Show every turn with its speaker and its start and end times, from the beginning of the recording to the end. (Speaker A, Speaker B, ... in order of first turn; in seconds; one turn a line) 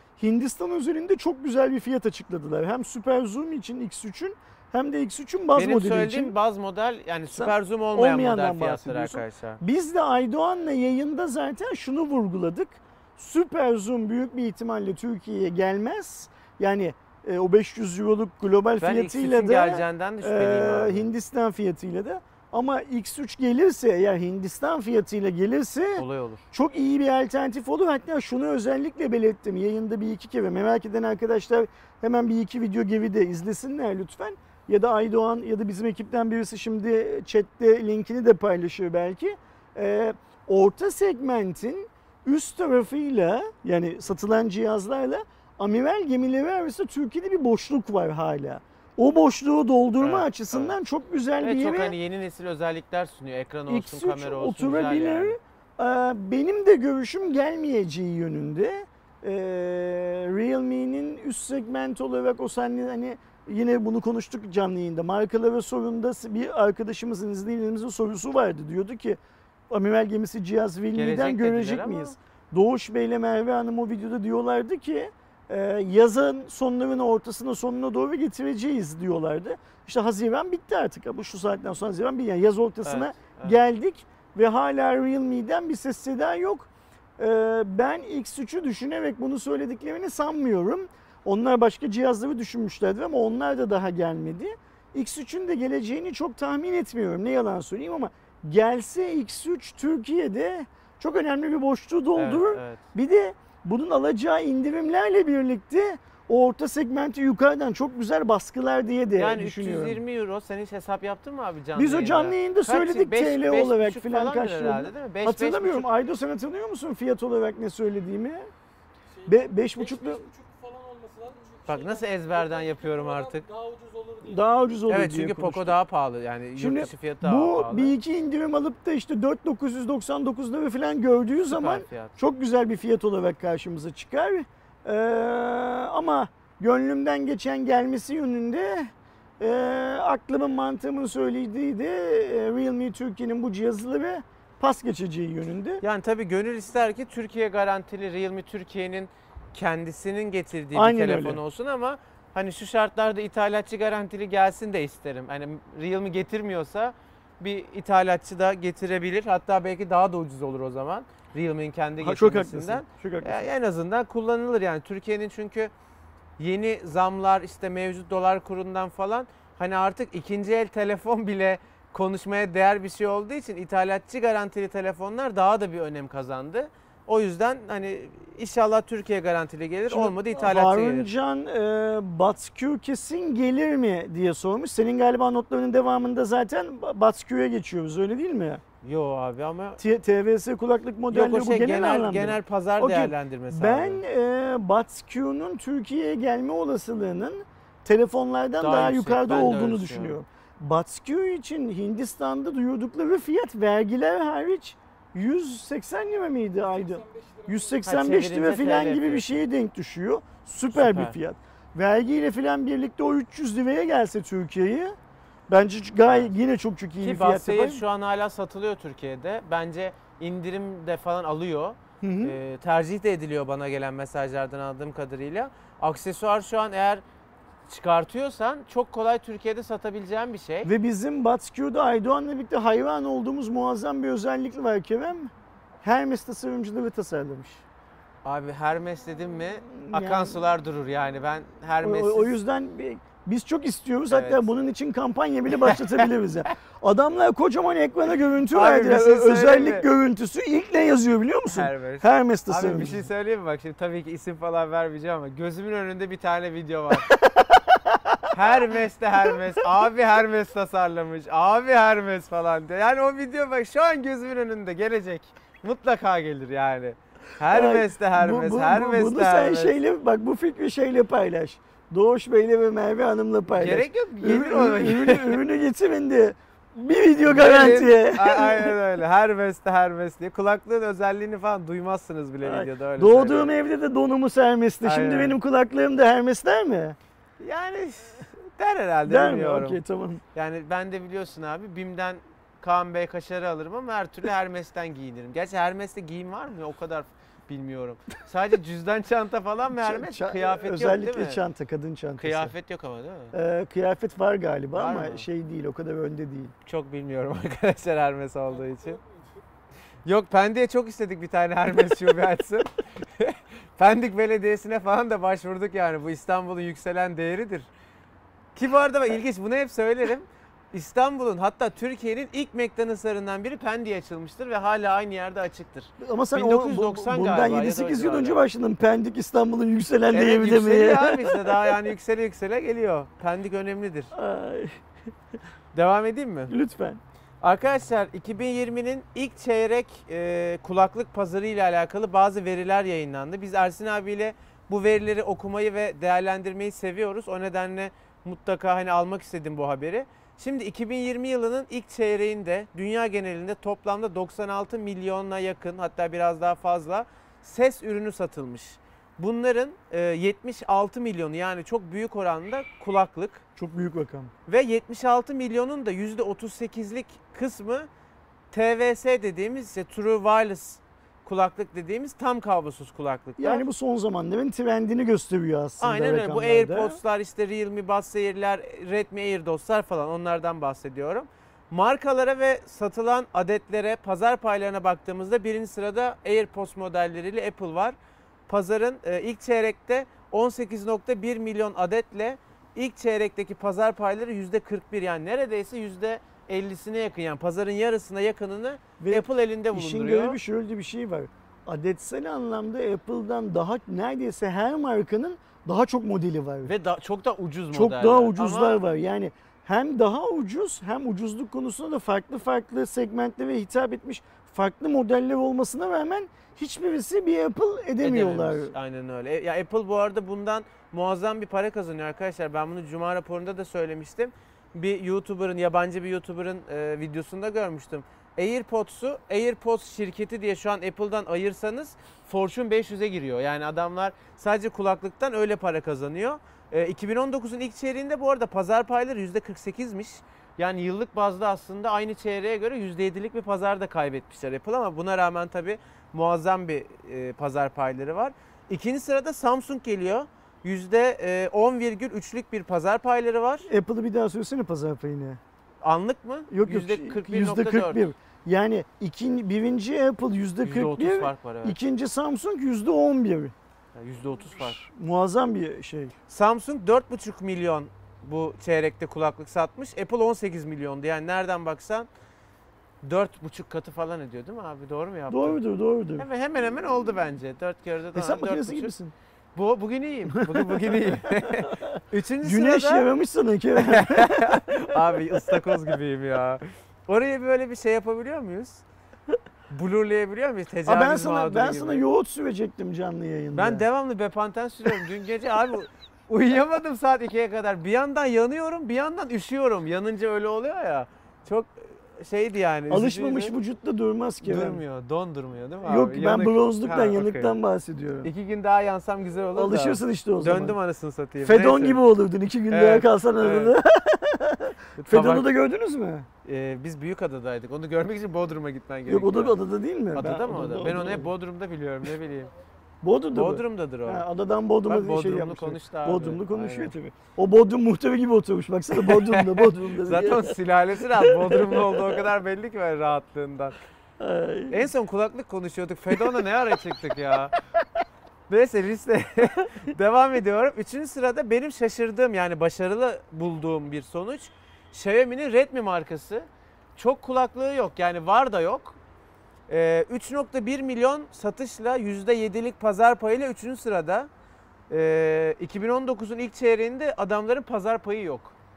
Speaker A: 0.2-6.3
Speaker B: 5.5-9.6
Speaker A: 7.3-52.0
Speaker B: 18.8-21.1
Speaker B: 26.0-26.4
Speaker B: 50.0-50.8
Speaker B: 51.4-55.4
Speaker A: 53.7-110.0
Speaker B: 71.0-72.2
Speaker B: 82.8-83.6
Speaker B: 102.2-102.8
Speaker B: 109.2-115.9
Speaker A: 111.8-118.5
Speaker C: 119.1-124.6
Speaker A: 119.3-120.2
Speaker B: 121.7-123.4
Speaker A: 124.3-125.8
Speaker B: 124.9-127.9
Speaker A: 126.6-145.8
Speaker B: 131.5-132.2
Speaker B: 145.8-165.7
Speaker A: 150.7-151.4
Speaker A: 162.0-163.5
Speaker B: 166.4-181.1
Speaker A: 179.9-188.6
Speaker B: 188.8-189.8
Speaker A: 189.8-215.0
Speaker B: 191.1-194.0
Speaker B: 198.6-200.2
Speaker C: 206.6-207.9
Speaker B: 207.8-209.4
Speaker B: 210.7-211.2
Speaker A: 215.5-217.8
Speaker B: 216.1-216.3
Speaker B: 217.0-227.0
Speaker A: 222.0-222.4
Speaker B: 227.7-230.7
Speaker A: 230.7-235.3
Speaker A: 235.8-237.6
Speaker B: 238.2-242.4
Speaker A: 239.7-240.4
Speaker A: 241.8-253.1
Speaker B: 244.1-244.5
Speaker B: 245.7-246.1
Speaker B: 248.5-249.9
Speaker B: 251.5-257.1
Speaker A: 257.0-258.5
Speaker B: 258.3-269.8
Speaker A: 267.5-278.8
Speaker B: 273.5-275.4
Speaker B: 277.2-283.5
Speaker A: 282.4-287.0
Speaker B: 284.8-285.4
Speaker B: 287.4-289.8
Speaker A: 289.1-290.2
Speaker B: 290.4-301.4
Speaker A: 299.7-302.5
Speaker B: 302.2-303.4
Speaker A: 303.3-306.5
Speaker B: 304.7-305.3
Speaker B: 306.6-309.0
Speaker C: 308.5-309.4
Speaker B: 310.1-317.7
Speaker B: 318.6-328.4
Speaker A: 326.0-331.8
Speaker B: 330.1-334.1
Speaker A: 334.1-334.8
Speaker B: 335.8-336.5
Speaker A: 336.5-337.0
Speaker B: 337.4-363.4
Speaker A: 363.6-364.3
Speaker B: 364.5-367.9
Speaker B: 368.5-373.6
Speaker A: 373.4-377.0
Speaker B: 375.8-388.0
Speaker B: 388.5-400.4
Speaker A: 399.0-406.7
Speaker B: 406.6-408.8
Speaker A: 407.7-418.7
Speaker B: 418.0-453.7
Speaker A: 453.7-455.4
Speaker B: 455.8-458.1
Speaker A: 456.5-463.5
Speaker B: 460.6-461.8
Speaker B: 463.9-464.9
Speaker A: 464.6-466.1
Speaker B: 466.3-472.1
Speaker B: 473.0-475.6
Speaker A: 475.3-476.2
Speaker B: 476.2-478.9
Speaker A: 478.1-479.1
Speaker B: 479.6-483.1
Speaker A: 480.3-485.8
Speaker B: 483.8-488.8
Speaker B: 489.7-492.1
Speaker A: 490.9-493.8
Speaker B: 493.5-503.6
Speaker A: 502.9-504.8
Speaker B: 504.4-507.5
Speaker A: 505.8-508.3
Speaker B: 508.2-512.0
Speaker A: 509.6-510.8
Speaker A: 511.4-516.3
Speaker B: 512.7-513.8
Speaker B: 515.0-515.5
Speaker B: 516.5-519.6
Speaker A: 519.1-521.3
Speaker B: 520.1-522.5
Speaker A: 523.0-530.6
Speaker B: 523.3-524.2
Speaker B: 524.9-526.9
Speaker B: 529.0-533.8
Speaker A: 531.1-532.2
Speaker A: 534.2-534.9
Speaker B: 534.7-537.5
Speaker A: 536.1-536.5
Speaker B: 538.5-549.0
Speaker B: 549.7-554.3
Speaker B: 554.9-558.6